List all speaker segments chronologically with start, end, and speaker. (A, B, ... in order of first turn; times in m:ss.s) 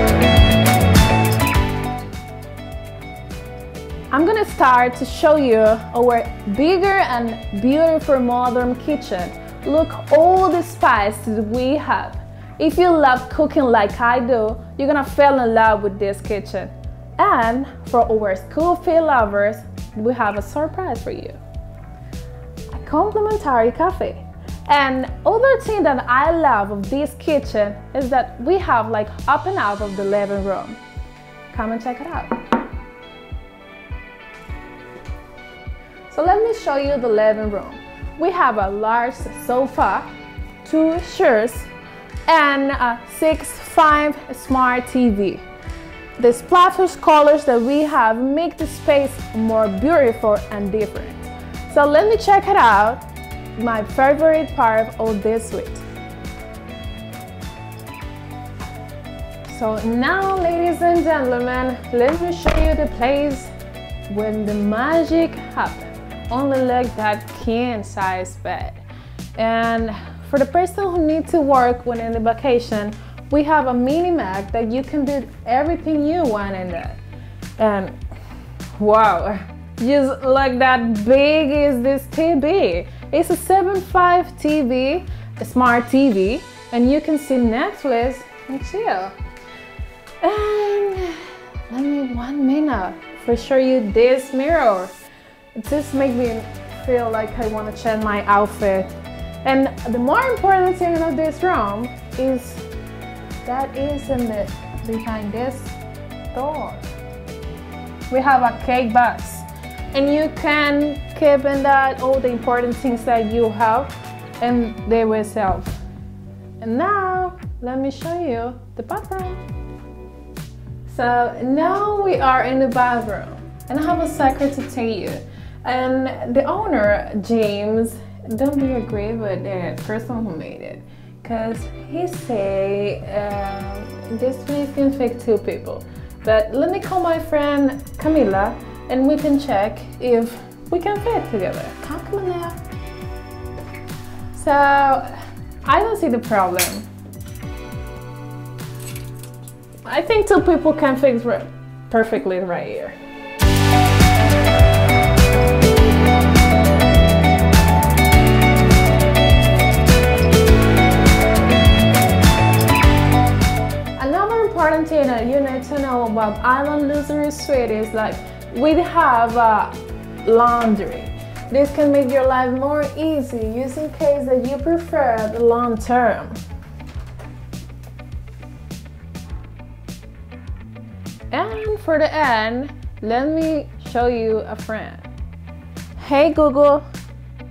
0:04.1-0:21.4 A
0:22.7-0:30.8 A
0:31.5-0:32.4 A
0:36.1-0:40.1 A
0:40.6-0:41.7 A
0:42.3-0:45.4 A
0:46.2-0:53.0 A
0:53.6-0:55.8 A
0:59.5-1:03.5 A
1:04.1-1:08.8 A
1:09.4-1:17.0 A
1:17.6-1:18.0 A
1:18.8-1:29.1 A
1:30.2-1:35.0 A
1:35.6-1:38.9 A
1:39.4-1:42.6 A
1:43.4-1:45.8 A
1:46.3-1:46.8 A
1:48.1-1:55.8 A
1:56.6-1:59.4 A
2:00.9-2:22.6 A
2:24.3-2:26.9 A
2:29.8-2:33.0 A
2:44.0-2:56.4 A
3:01.3-3:05.1 A
3:06.0-3:06.9 A